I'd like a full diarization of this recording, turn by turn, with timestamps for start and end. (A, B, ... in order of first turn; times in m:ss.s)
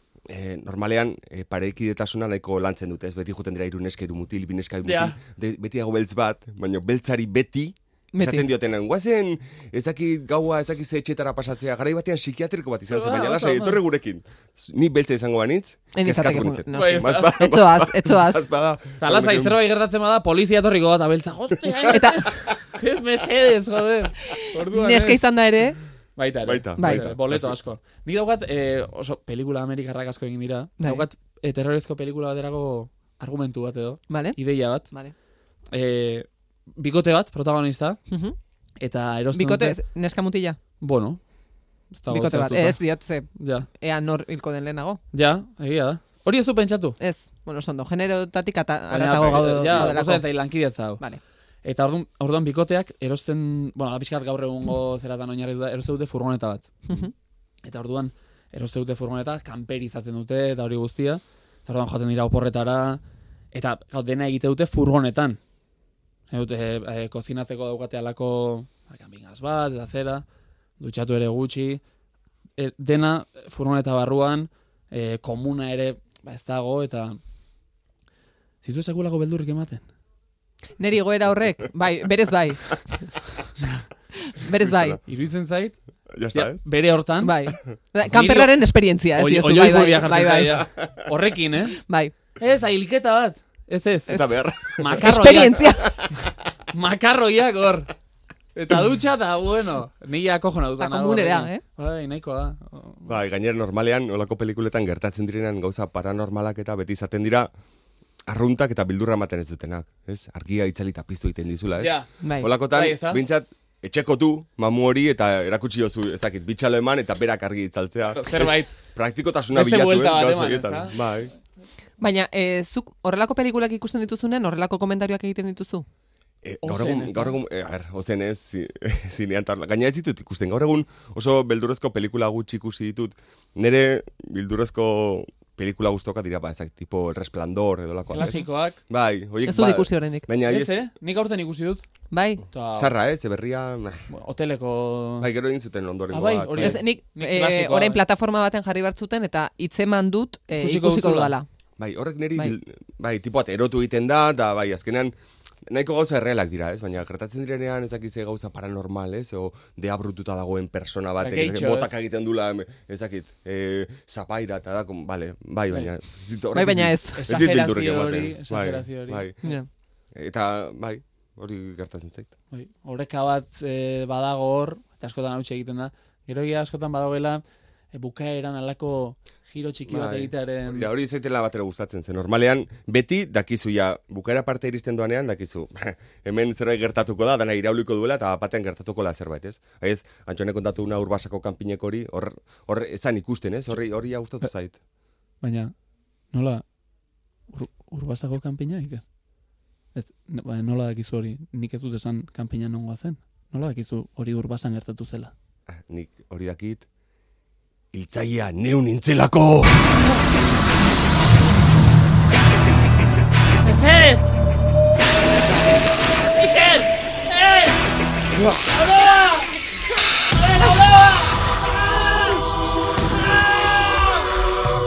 0:00.3-0:19.6 A
0:04.8-0:05.2 B
0:08.1-0:08.5 C
0:12.9-0:13.8 C
0:15.9-0:18.4 C
0:16.7-0:17.3 B
0:19.0-0:25.2 B
0:21.9-0:22.3 C
0:24.3-0:25.8 C
0:26.2-0:34.9 B
0:26.4-0:27.6 A
0:26.8-0:27.1 C
0:30.8-0:31.0 C
0:34.1-0:35.1 C
0:35.7-0:38.0 B
0:38.1-0:38.4 C
0:38.8-0:39.8 B
0:39.3-0:40.6 C
0:40.8-0:41.2 B
0:41.9-0:42.8 B
0:42.1-0:45.0 C
0:43.3-0:43.7 B
0:45.1-0:47.0 B
0:47.0-0:51.2 C
0:48.9-0:51.0 B
0:49.3-0:49.8 A
0:51.6-0:56.7 B
0:57.6-1:05.4 B
1:06.3-1:10.2 B
1:10.8-1:11.8 B
1:12.6-1:17.2 B
1:18.6-1:19.8 B
1:20.8-1:23.2 C
1:24.2-1:25.0 C
1:24.6-1:25.0 A
1:25.0-1:25.8 B
1:26.1-1:26.6 A
1:26.3-1:27.4 B
1:27.2-1:30.7 C
1:28.1-1:28.6 B
1:29.1-1:31.8 B
1:31.7-1:32.1 C
1:32.4-1:35.7 B
1:34.1-1:35.1 A
1:35.0-1:36.0 C
1:35.8-1:36.3 A
1:36.7-1:37.9 B
1:38.5-1:43.2 B
1:40.8-1:41.6 C
1:43.1-1:47.5 A
1:48.3-2:01.3 A
1:51.8-1:52.1 B
1:52.2-1:52.5 C
1:52.7-1:53.2 B
1:58.1-1:58.7 B
1:59.5-2:01.1 B
2:02.0-2:05.8 C
2:06.4-2:20.8 A
2:06.6-2:07.4 B
2:18.1-2:18.8 B
2:19.4-2:20.3 C
2:20.4-2:21.8 B
2:22.1-2:22.5 C
2:22.5-2:22.9 B
2:22.7-2:24.1 A
2:24.1-2:25.3 B
2:25.2-2:26.8 A
2:26.1-2:28.0 B
2:26.6-2:31.5 C
2:30.6-2:31.3 B
2:31.8-2:35.1 A
2:35.7-2:49.3 A
2:41.2-2:41.9 B
2:46.5-2:47.2 C
2:47.1-2:49.6 B
2:50.1-2:52.3 A
2:52.5-2:57.4 B
2:57.9-3:00.9 B
2:59.9-3:14.8 A
3:15.4-3:15.7 B
3:16.3-3:16.6 B
3:17.5-3:19.0 B
3:19.9-3:25.3 B
3:25.7-3:26.8 A
3:27.9-3:30.0 A
3:33.5-3:34.4 B
3:36.2-3:37.8 B
3:38.4-3:39.5 B
3:40.3-3:41.4 B
3:42.0-3:42.4 B
3:43.6-3:44.2 B